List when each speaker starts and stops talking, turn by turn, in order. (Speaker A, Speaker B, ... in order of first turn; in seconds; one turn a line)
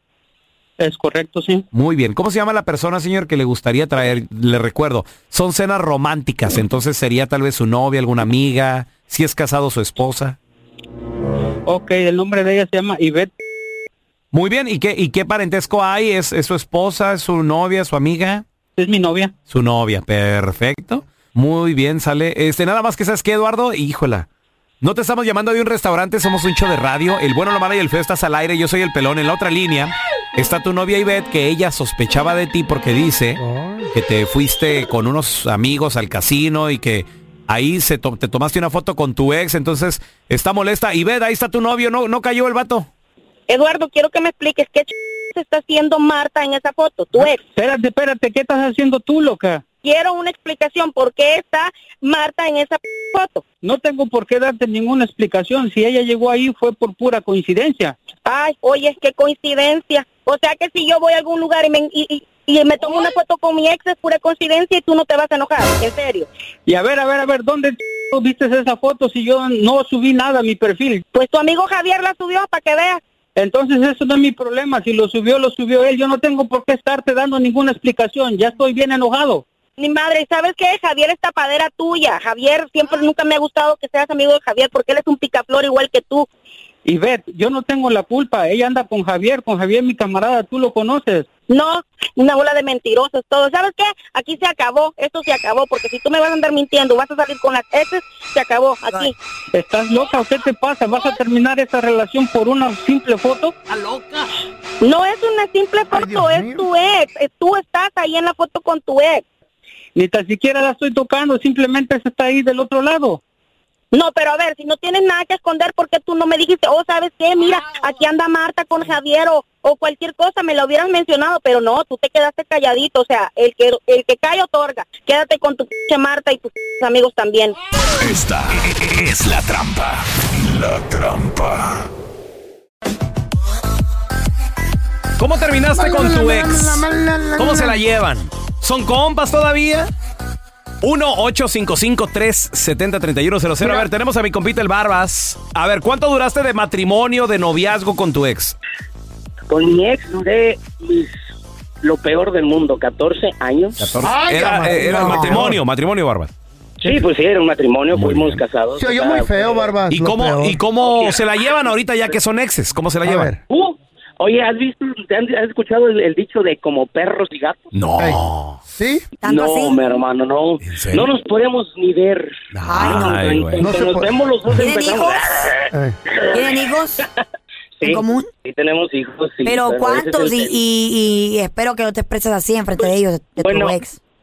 Speaker A: 0.8-1.6
Speaker B: 1.7-10.4
Speaker A: 11.7-13.3
Speaker B: 14.3-18.4
Speaker A: 18.8-19.3
Speaker B: 19.5-24.3
Speaker B: 24.8-33.4
Speaker C: 33.4-33.9
Speaker B: 33.9-42.9
Speaker D: 43.5-47.4
Speaker A: 47.2-49.6
Speaker D: 49.8-53.4
Speaker A: 53.6-58.0
Speaker D: 58.2-66.3
Speaker A: 66.7-71.0
Speaker D: 71.1-73.0
Speaker A: 73.4-79.4
Speaker D: 79.8-86.3
Speaker A: 86.8-91.3
Speaker D: 91.5-99.1
Speaker A: 99.5-103.5
Speaker B: 103.7-104.2
Speaker D: 104.8-109.2
Speaker C: 105.9-106.7
Speaker A: 110.0-113.2
Speaker D: 113.9-127.5
Speaker E: 128.0-131.8
Speaker B: 135.2-136.8
Speaker C: 135.7-137.8
Speaker B: 137.4-139.9
Speaker B: 140.8-148.6
Speaker F: 149.5-151.1
Speaker F: 151.8-154.0
Speaker B: 153.8-156.3
Speaker C: 154.0-155.6
Speaker G: 154.9-155.4
Speaker F: 156.8-159.8
Speaker B: 157.9-158.4
Speaker C: 158.7-160.6
Speaker B: 159.9-163.3
Speaker F: 160.8-162.1
Speaker C: 163.0-163.4
Speaker F: 163.5-167.7
Speaker B: 167.7-168.6
Speaker C: 168.0-169.1
Speaker G: 169.2-169.8
Speaker F: 169.2-176.7
Speaker B: 170.6-171.1
Speaker B: 172.5-173.7
Speaker G: 172.6-173.2
Speaker C: 173.6-174.1
Speaker G: 174.5-175.5
Speaker G: 176.3-177.0
Speaker F: 177.8-180.6
Speaker G: 177.8-178.3
Speaker G: 179.4-184.0
Speaker F: 183.4-183.8